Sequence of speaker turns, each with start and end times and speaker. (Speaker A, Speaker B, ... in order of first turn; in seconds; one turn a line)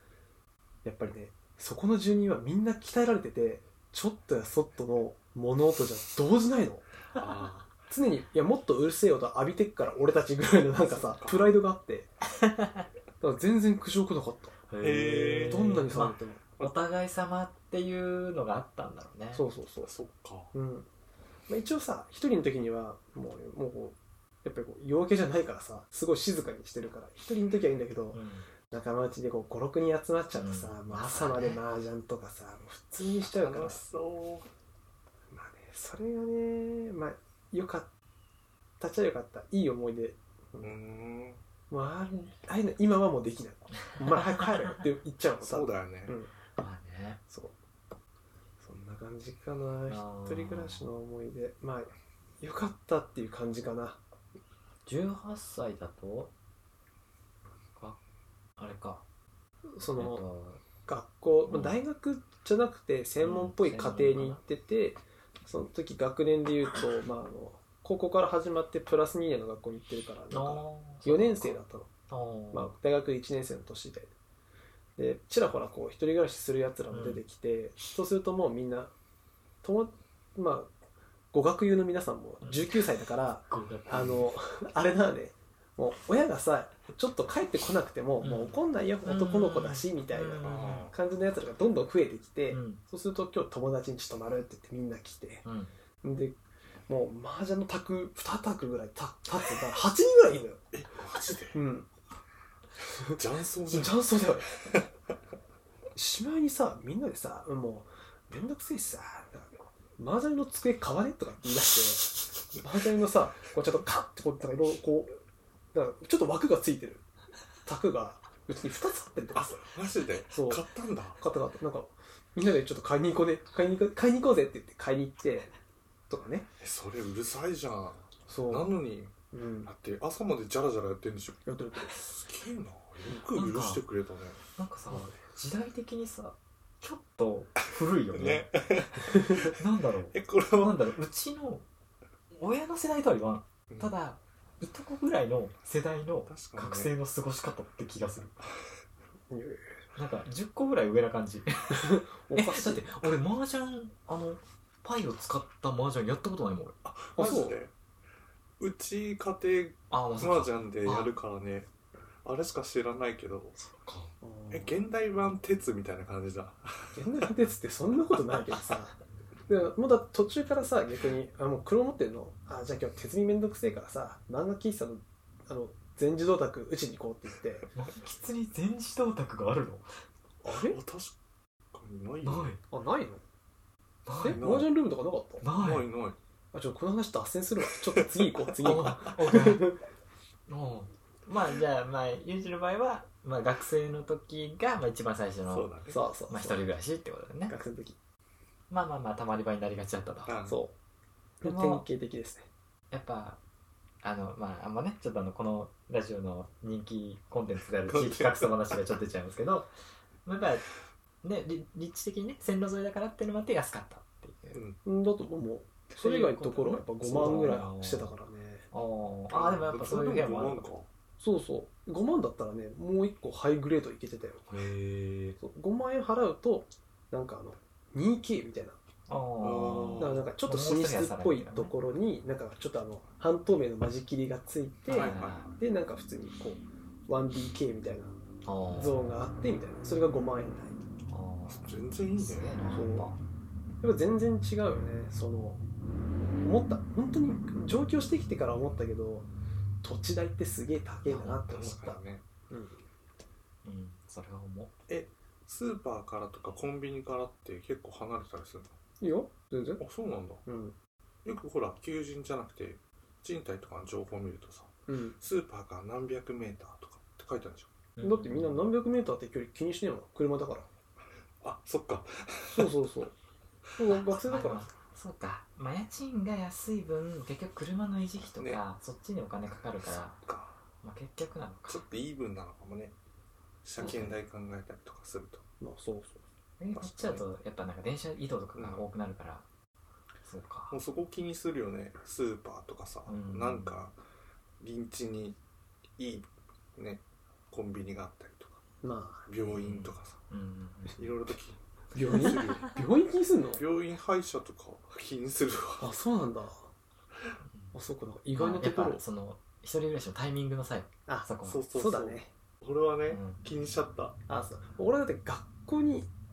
Speaker A: 0.8-6.9
Speaker B: 7.1-7.7
Speaker A: 7.9-12.1
Speaker B: 10.9-11.6
Speaker C: 12.4-12.8
Speaker A: 13.2-14.6
Speaker C: 14.7-19.5
Speaker B: 14.8-15.9
Speaker A: 15.4-16.4
Speaker A: 19.3-19.9
Speaker B: 19.8-20.5
Speaker A: 20.5-20.9
Speaker A: 21.5-33.8
Speaker C: 28.1-28.5
Speaker C: 30.4-31.6
Speaker B: 33.3-34.5
Speaker A: 35.3-37.9
Speaker A: 38.8-40.7
Speaker B: 40.6-41.4
Speaker A: 41.7-46.3
Speaker C: 43.9-44.8
Speaker B: 45.4-46.2
Speaker C: 46.6-47.2
Speaker A: 47.3-47.5
Speaker A: 48.6-54.0
Speaker C: 49.9-50.9
Speaker C: 54.9-56.3
Speaker C: 58.6-59.0
Speaker A: 59.7-60.2
Speaker C: 60.0-60.6
Speaker A: 60.9-71.9
Speaker C: 61.5-61.8
Speaker C: 63.2-64.4
Speaker C: 70.3-72.7
Speaker A: 72.5-74.1
Speaker A: 75.0-78.9
Speaker C: 76.9-77.2
Speaker A: 79.6-80.7
Speaker A: 81.3-95.4
Speaker C: 82.4-82.8
Speaker C: 83.5-84.3
Speaker C: 88.2-90.9
Speaker B: 90.4-90.9
Speaker C: 92.5-92.8
Speaker C: 95.5-95.7
Speaker A: 96.0-100.6
Speaker B: 100.7-101.6
Speaker A: 101.5-101.9
Speaker A: 103.0-104.5
Speaker B: 103.0-104.9
Speaker A: 106.0-115.2
Speaker A: 115.7-117.1
Speaker A: 117.7-119.6
Speaker B: 119.3-121.2
Speaker A: 120.3-120.7
Speaker A: 121.2-125.5
Speaker A: 126.1-126.5
Speaker B: 126.6-129.1
Speaker A: 128.3-128.7
Speaker A: 129.3-129.7
Speaker B: 129.7-134.4
Speaker A: 131.5-132.0
Speaker C: 133.3-133.8
Speaker C: 134.6-141.7
Speaker A: 134.9-135.2
Speaker B: 138.1-140.9
Speaker C: 142.3-148.4
Speaker B: 146.3-146.9
Speaker A: 149.3-149.7
Speaker C: 149.9-156.8
Speaker A: 151.7-152.9
Speaker B: 156.8-157.7
Speaker A: 157.2-157.6
Speaker B: 158.6-161.7
Speaker C: 159.9-161.1
Speaker B: 162.2-163.6
Speaker C: 163.6-164.1
Speaker A: 164.2-164.8
Speaker B: 164.5-167.3
Speaker A: 167.0-168.9
Speaker A: 169.5-177.7
Speaker C: 177.8-179.9
Speaker A: 180.4-180.8
Speaker B: 180.5-181.2
Speaker B: 181.7-182.5
Speaker C: 182.2-182.6
Speaker A: 182.7-183.2
Speaker C: 184.1-184.4
Speaker A: 184.2-185.4
Speaker B: 184.3-184.7
Speaker C: 185.4-185.9
Speaker B: 185.6-186.2
Speaker A: 186.5-189.8
Speaker C: 188.6-189.7
Speaker C: 190.5-195.7
Speaker B: 195.5-196.0
Speaker A: 195.9-196.6
Speaker C: 196.3-197.6
Speaker A: 197.5-198.0
Speaker C: 198.7-200.3
Speaker B: 200.3-200.6
Speaker A: 200.5-200.7
Speaker A: 201.4-202.5
Speaker C: 201.4-201.9
Speaker C: 202.9-203.4
Speaker C: 204.0-209.7
Speaker B: 207.9-208.5
Speaker C: 210.2-210.7
Speaker C: 211.2-214.6
Speaker B: 214.5-214.8
Speaker A: 214.8-218.7
Speaker C: 215.9-218.1
Speaker B: 217.2-217.5
Speaker C: 218.7-220.7
Speaker B: 219.3-220.9
Speaker A: 221.2-224.5
Speaker C: 224.5-225.4
Speaker A: 225.4-228.8
Speaker C: 229.1-231.7
Speaker B: 229.4-230.2
Speaker A: 230.0-238.2
Speaker B: 234.9-235.5
Speaker C: 234.9-235.5
Speaker C: 238.4-239.0
Speaker A: 238.8-240.8
Speaker C: 241.1-243.2
Speaker B: 241.5-242.8
Speaker A: 242.7-243.1
Speaker A: 243.8-245.6
Speaker A: 246.4-249.3
Speaker A: 249.8-252.8
Speaker C: 251.1-251.4
Speaker B: 251.4-252.2
Speaker C: 253.7-254.7
Speaker B: 254.9-258.8
Speaker A: 259.0-259.8
Speaker B: 259.8-260.4
Speaker A: 260.5-260.8
Speaker B: 261.2-267.7
Speaker A: 264.9-265.2
Speaker C: 268.0-268.7
Speaker A: 268.0-270.7
Speaker B: 271.4-272.7
Speaker A: 272.5-273.1
Speaker A: 273.8-274.7
Speaker C: 274.1-280.1
Speaker B: 280.1-280.6
Speaker C: 280.8-281.8
Speaker B: 281.7-282.9
Speaker B: 283.6-285.4
Speaker C: 283.8-284.2
Speaker A: 285.6-286.2
Speaker C: 286.6-289.5
Speaker B: 286.7-287.2
Speaker B: 288.6-288.9
Speaker C: 290.2-290.8
Speaker B: 290.7-293.9
Speaker C: 293.1-293.8
Speaker B: 294.6-295.4
Speaker B: 296.0-298.6
Speaker A: 298.8-299.3
Speaker B: 299.3-300.2
Speaker C: 299.5-301.1
Speaker B: 301.0-302.8
Speaker A: 301.9-303.6
Speaker B: 303.6-305.9
Speaker A: 305.8-306.7
Speaker C: 307.5-307.8
Speaker A: 307.7-309.0
Speaker C: 308.3-311.6
Speaker A: 311.1-312.3
Speaker B: 311.4-314.2
Speaker C: 313.1-313.4
Speaker A: 314.3-316.1